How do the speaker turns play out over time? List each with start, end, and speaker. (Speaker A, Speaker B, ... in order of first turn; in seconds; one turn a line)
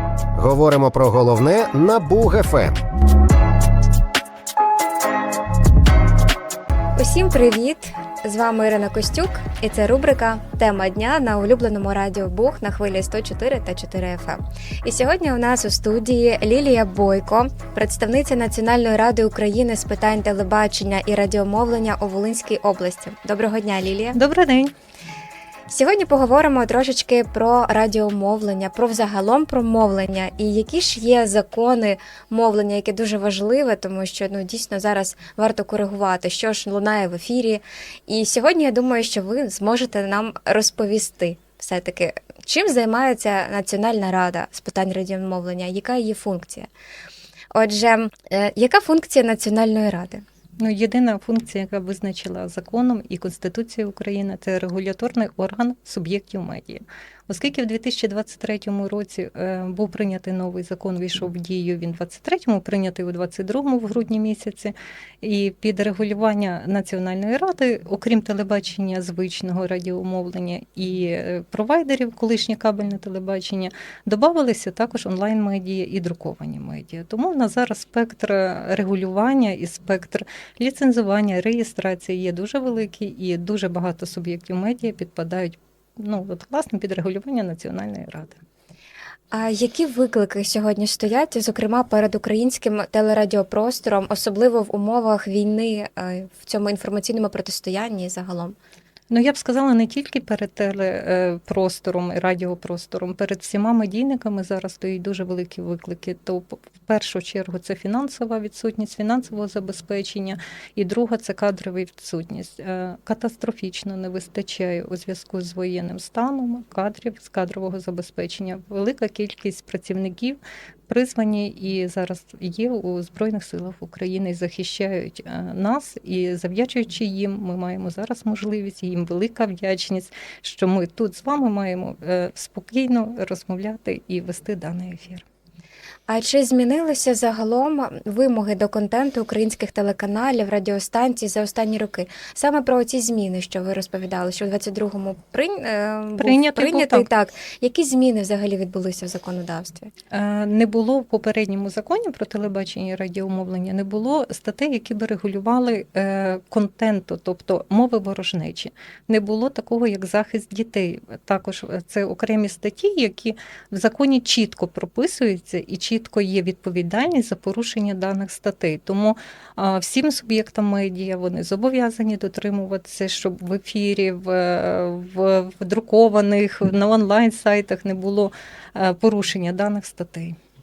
Speaker A: 0.3-2.8
Speaker B: 7.0-24.2
Speaker C: 24.1-24.7
Speaker B: 25.7-46.7
Speaker B: 47.5-50.2
Speaker C: 50.6-88.4
Speaker B: 89.3-98.6
Speaker C: 99.1-135.2
Speaker B: 136.1-149.9
Speaker C: 146.2-147.1
Speaker C: 150.1-180.4